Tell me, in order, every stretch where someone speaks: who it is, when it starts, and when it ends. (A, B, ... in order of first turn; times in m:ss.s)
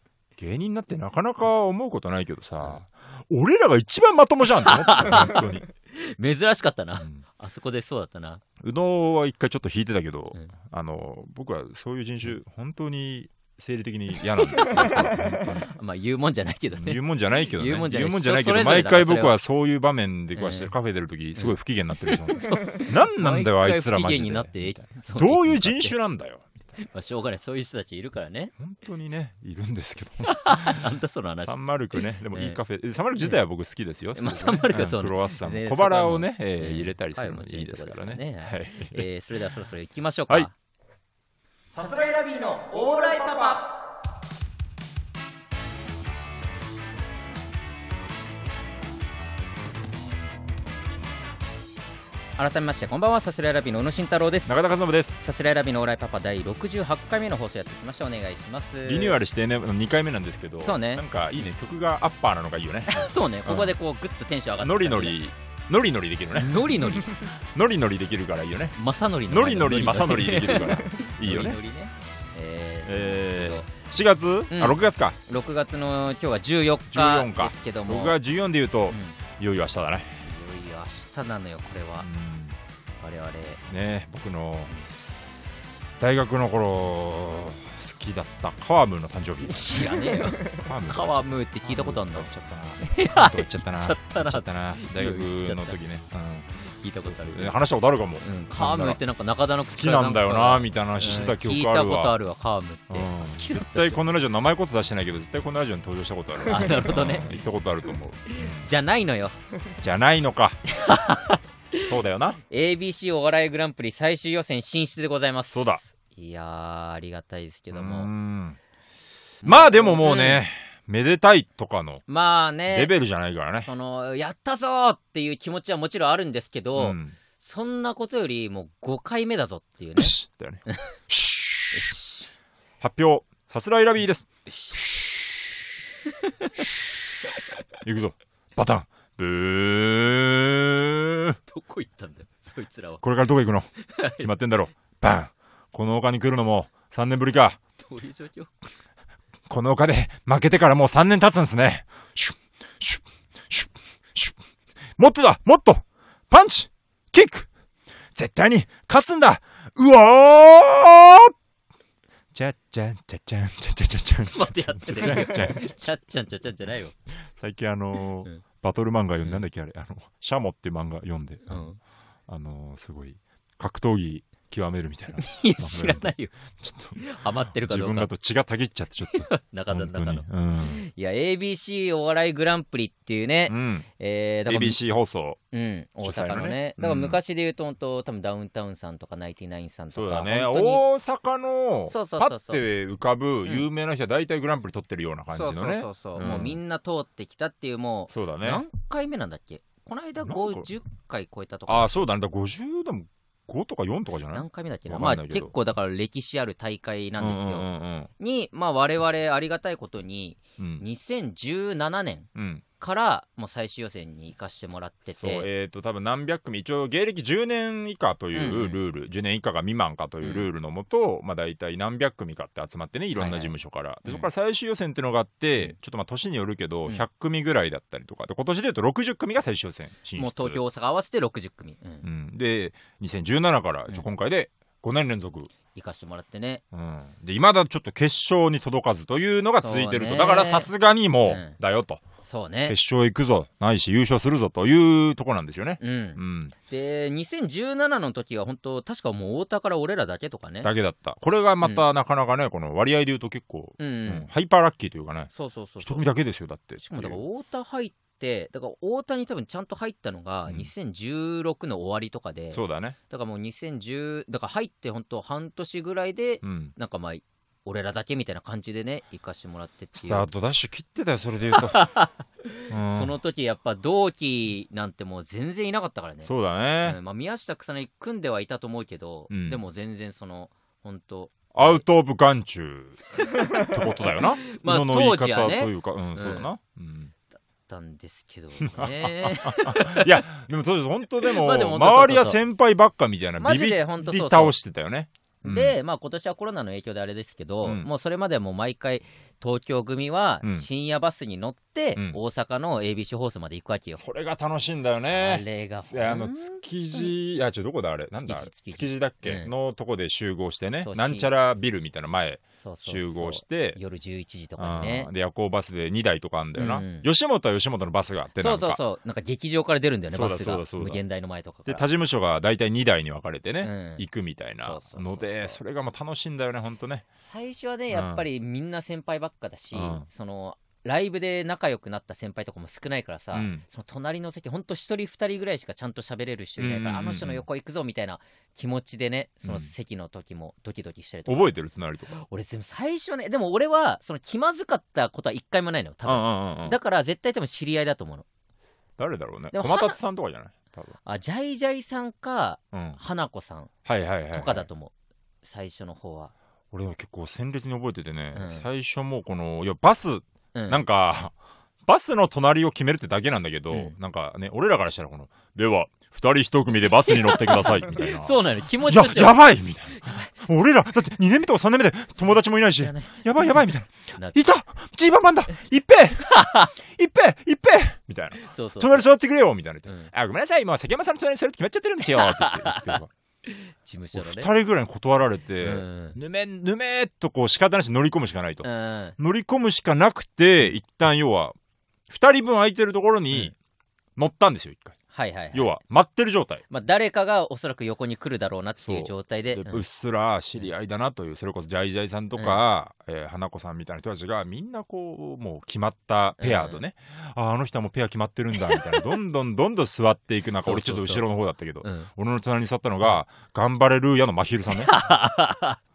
0:00.4-0:05.6 A
0:04.6-0:08.4 B
0:08.6-0:15.7 A
0:14.6-0:15.0 B
0:15.5-0:19.4 B
0:16.7-0:26.8 A
0:20.4-0:20.7 B
0:21.4-0:26.0 B
0:26.8-0:28.5 B
0:28.6-0:30.8 A
0:30.2-0:32.6 B
0:31.4-0:39.1 A
0:34.2-0:40.5 B
0:41.7-0:43.8 B
0:52.4-0:54.6 B
0:54.5-0:55.2 A
0:55.2-0:59.2 B
0:58.8-1:03.7 A
1:00.6-1:01.0 B
1:02.9-1:05.2 B
1:04.6-1:08.8 A
1:06.4-1:07.3 B
1:08.8-1:13.7 B
1:09.3-1:11.6 A
1:12.9-1:15.2 A
1:14.5-1:18.2 B
1:16.9-1:20.2 A
1:18.9-1:19.2 B
1:20.2-1:22.1 B
1:22.0-1:22.6 A
1:23.0-1:23.6 B
1:23.7-1:24.7 A
1:26.0-1:29.9 A
1:29.4-1:35.8 B
1:30.4-1:39.0 A
1:36.6-1:37.6 B
1:38.2-1:44.0 B
1:39.6-1:42.1 A
1:42.9-1:48.7 A
1:46.5-1:47.3 B
1:48.3-1:49.4 B
1:49.8-1:50.6 A
1:50.7-1:51.9 B
1:51.8-1:52.4 A
1:52.5-1:58.1 B
1:55.5-1:55.8 A
1:57.7-1:58.6 A
1:59.4-2:00.4 B
1:59.4-2:02.0 A
2:02.1-2:02.9 B
2:02.7-2:03.7 A
2:03.6-2:10.1 B
2:06.8-2:07.2 A
2:10.0-2:12.0 A
2:11.7-2:12.3 B
2:12.8-2:15.7 A
2:14.5-2:14.8 B
2:16.6-2:16.9 A
2:17.8-2:21.4 A
2:21.5-2:23.0 B
2:23.0-2:23.7 A
2:23.9-2:24.3 B
2:24.2-2:27.6 A
2:27.8-2:28.5 B
2:29.5-2:34.4 A
2:35.0-2:37.5 A
2:38.2-2:41.3 A
2:42.3-2:45.7 A
2:44.2-2:46.9 B
2:47.3-2:51.7 A
2:51.5-2:51.8 B
2:52.3-3:00.8 A
2:55.2-2:56.3 B
2:57.0-2:58.1 B
2:59.1-3:04.8 B
3:03.5-3:03.9 A
3:04.5-3:05.4 A
3:05.5-3:10.8 B
3:06.0-3:07.2 A
3:09.9-3:16.6 A
3:11.9-3:12.6 B
3:15.3-3:22.1 B
3:18.1-3:18.6 A
3:20.2-3:20.7 A
3:21.7-3:25.5 A
3:24.3-3:27.7 B
3:27.2-3:28.1 A
3:28.2-3:32.3 B
3:30.6-3:30.8 A
3:32.4-3:32.6 A
3:32.8-3:35.5 B
3:35.1-3:50.6 A
3:38.3-3:38.8 B
3:40.2-3:40.5 B
3:43.2-3:43.6 B
3:50.2-3:52.1 B
3:52.0-3:55.5 A
3:55.7-3:56.6 B
3:56.7-4:02.0 A
3:59.6-4:00.7 B
4:01.3-4:01.6 B
4:02.2-4:02.8 B
4:02.7-4:06.5 A
4:05.8-4:10.7 B
4:10.6-4:15.3 A
4:13.8-4:14.3 B
4:15.3-4:16.1 B
4:15.8-4:17.2 A
4:16.8-4:30.3 B
4:22.5-4:23.0 A
4:26.4-4:26.7 A
4:30.0-4:31.8 A
4:31.5-4:32.2 B
4:32.7-4:33.1 A
4:32.8-4:36.3 B
4:36.2-4:37.0 A
4:36.8-4:41.8 B
4:39.3-4:39.6 A
4:41.5-4:47.1 A
4:43.2-4:46.5 B
4:47.7-4:50.2 B
4:48.6-4:55.8 A
4:51.2-4:52.4 B
4:53.4-4:54.6 B
4:55.4-5:04.0 B
5:04.0-5:13.8 A
5:05.1-5:07.1 B
5:08.2-5:09.5 B
5:10.8-5:11.3 B
5:12.6-5:15.1 B
5:14.6-5:18.8 A
5:16.6-5:17.1 B
5:18.4-5:21.9 B
5:20.1-5:21.0 A
5:21.7-5:27.1 A
5:23.6-5:24.1 B
5:24.6-5:25.6 B
5:27.2-5:41.5 B
5:27.9-5:28.2 A
5:29.7-5:30.1 A
5:33.3-5:33.6 A
5:36.6-5:37.4 A
5:39.4-5:39.7 A
5:41.3-5:42.2 A
5:42.1-5:48.2 B
5:46.1-5:46.8 A
5:49.0-5:51.0 A
5:49.5-5:50.0 B
5:51.0-5:53.7 B
5:52.7-5:53.0 A
5:53.9-5:54.7 A
5:54.3-5:54.9 B
5:55.4-5:56.3 B
5:56.7-6:01.3 A
5:58.4-5:58.7 B
6:00.5-6:00.8 B
6:01.9-6:23.1 A
6:06.9-6:10.3 B
6:12.2-6:14.4 B
6:16.2-6:16.8 B
6:18.4-6:19.0 B
6:22.0-6:24.5 B
6:24.1-6:28.7 A
6:25.6-6:26.2 B
6:28.6-6:29.2 B
6:29.2-6:31.6 A
6:32.1-6:33.5 A
6:34.2-6:35.0 A
6:35.1-6:35.8 B
6:35.5-6:36.6 A
6:36.7-6:39.8 B
6:38.8-6:54.9 A
6:46.4-6:46.8 B
6:50.6-6:51.2 B
6:51.8-6:52.1 B
6:54.7-6:55.8 B